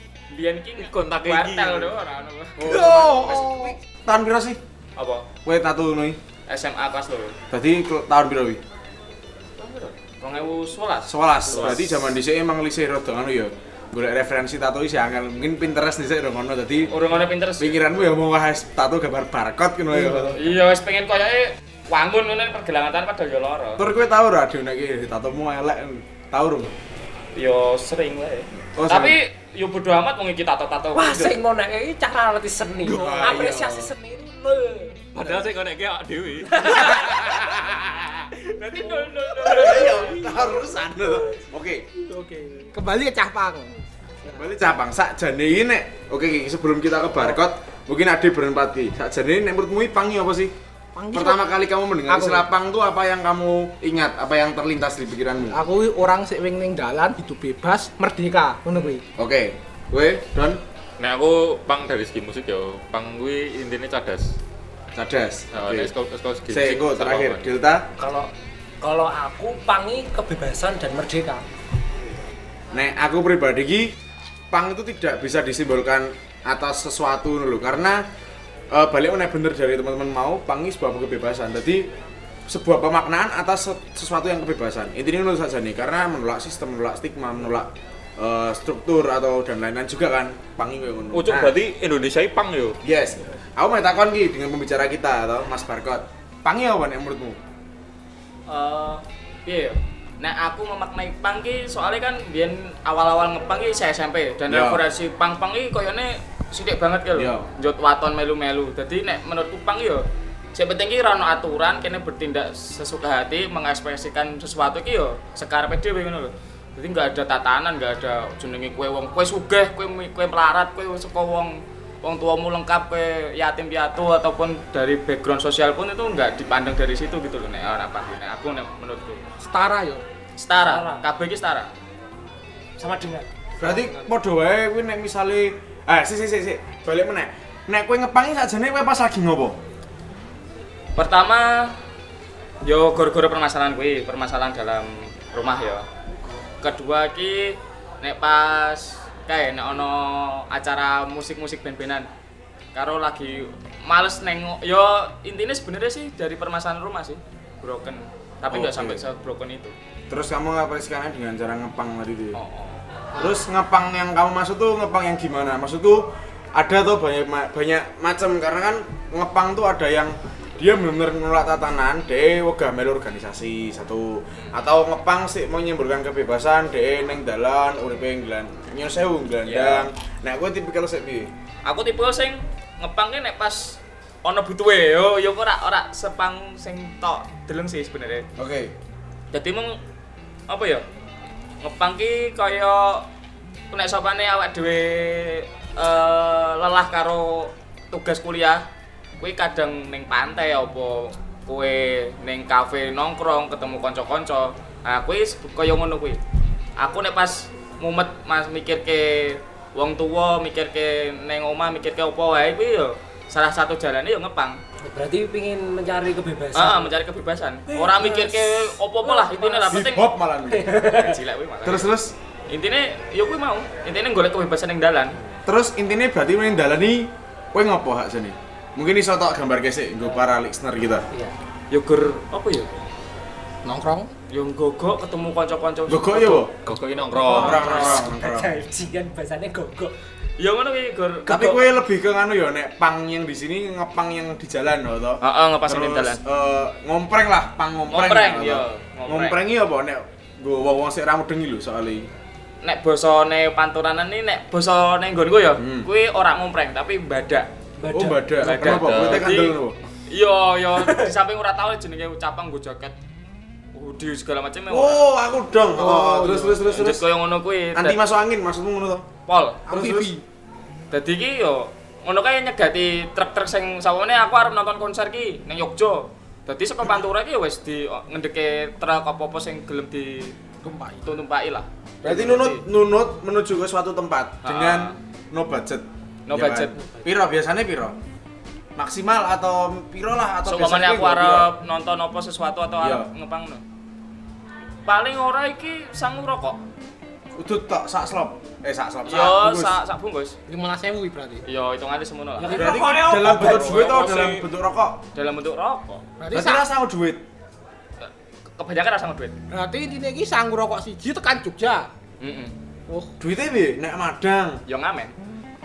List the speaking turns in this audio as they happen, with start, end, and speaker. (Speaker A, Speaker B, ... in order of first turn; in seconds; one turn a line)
Speaker A: 0.3-3.1
Speaker B: 0.8-1.9
Speaker C: 2.6-4.6
Speaker D: 2.6-3.8
Speaker A: 5.0-5.3
Speaker C: 5.5-6.2
Speaker A: 6.5-7.3
Speaker C: 7.5-8.6
Speaker A: 9.6-12.0
Speaker C: 11.1-17.0
Speaker B: 11.5-11.9
Speaker A: 16.9-17.8
Speaker C: 17.6-20.4
Speaker D: 20.0-20.3
Speaker A: 20.4-23.8
Speaker C: 23.8-26.7
Speaker A: 27.4-31.4
Speaker C: 28.8-29.2
Speaker E: 30.9-35.1
Speaker C: 32.8-33.9
Speaker D: 32.9-33.4
Speaker B: 35.1-37.0
Speaker E: 36.5-37.2
Speaker C: 37.0-38.1
Speaker A: 38.4-40.5
Speaker E: 38.8-39.3
Speaker C: 39.5-41.9
Speaker D: 42.1-44.5
Speaker C: 44.3-50.5
Speaker D: 51.0-51.5
Speaker C: 51.1-55.6
Speaker D: 52.1-52.5
Speaker D: 55.5-59.0
Speaker C: 59.2-60.6
Speaker B: 61.0-64.3
Speaker C: 65.0-65.9
Speaker B: 65.5-67.5
Speaker C: 66.5-67.9
Speaker E: 68.0-68.3
Speaker E: 68.8-71.5
Speaker C: 72.7-73.9
Speaker C: 74.5-78.0
Speaker C: 78.7-81.9
Speaker C: 82.5-91.6
Speaker B: 91.1-92.8
Speaker C: 92.8-97.4
Speaker A: 98.5-110.0
Speaker C: 104.5-104.8
Speaker C: 107.2-107.5
Speaker A: 110.5-129.2
Speaker D: 129.4-130.0
Speaker A: 130.4-131.7
Speaker E: 130.6-131.1
Speaker E: 132.8-133.3
Speaker D: 133.6-134.1
Speaker C: 133.6-139.6
Speaker A: 141.0-141.8
Speaker A: 142.6-145.8
Speaker A: 146.6-152.1
Speaker A: 152.8-159.7
Speaker C: 158.5-159.0
Speaker C: 160.1-162.4
Speaker A: 162.3-162.8
Speaker C: 163.2-181.3
Speaker A: 179.4-179.9
Speaker A: 181.7-188.3
Speaker C: 188.4-188.8
Speaker A: 189.3-189.8
Speaker A: 190.5-190.8
Speaker A: 191.6-193.1
Speaker A: 193.7-198.7
Speaker A: 199.2-206.2
Speaker A: 206.8-214.6
Speaker E: 214.8-216.9
Speaker A: 216.5-220.1
Speaker E: 217.7-219.9
Speaker C: 219.7-220.8
Speaker E: 220.5-221.2
Speaker A: 220.9-221.9
Speaker C: 221.7-222.1
Speaker A: 222.5-225.2
Speaker C: 225.5-231.1
Speaker A: 231.7-232.7
Speaker D: 233.7-234.1
Speaker A: 234.3-236.4
Speaker C: 235.9-236.5
Speaker B: 236.6-238.0
Speaker E: 237.1-239.9
Speaker C: 237.3-238.5
Speaker A: 237.7-238.0
Speaker A: 240.4-241.7
Speaker C: 241.3-252.1
Speaker A: 245.2-246.2
Speaker A: 247.9-249.4
Speaker A: 252.6-257.5
Speaker C: 255.6-255.9
Speaker E: 257.8-258.3
Speaker C: 257.9-259.8
Speaker A: 258.4-259.6
Speaker B: 258.4-259.4
Speaker A: 260.1-263.0
Speaker E: 260.8-261.1
Speaker A: 263.8-265.0
Speaker C: 264.7-267.0
Speaker D: 265.7-266.6
Speaker A: 266.7-268.0
Speaker C: 267.7-269.1
Speaker A: 269.3-269.6
Speaker C: 269.7-270.1
Speaker D: 269.7-270.2
Speaker A: 270.9-280.4
Speaker D: 280.6-281.0
Speaker A: 281.0-282.6
Speaker C: 282.0-288.0
Speaker A: 284.4-285.0
Speaker A: 286.3-286.8
Speaker C: 288.8-291.5
Speaker A: 290.4-293.6
Speaker C: 292.8-293.1
Speaker A: 294.9-296.6
Speaker C: 297.4-299.8
Speaker A: 299.1-300.4
Speaker D: 300.5-301.4
Speaker A: 301.5-304.5
Speaker E: 302.4-303.9
Speaker C: 302.5-305.0
Speaker B: 303.9-304.2
Speaker A: 305.1-306.0
Speaker D: 306.2-306.7
Speaker C: 306.3-307.2
Speaker A: 308.0-309.4
Speaker D: 309.5-311.9
Speaker A: 312.2-312.5
Speaker C: 313.2-314.6
Speaker A: 314.7-315.1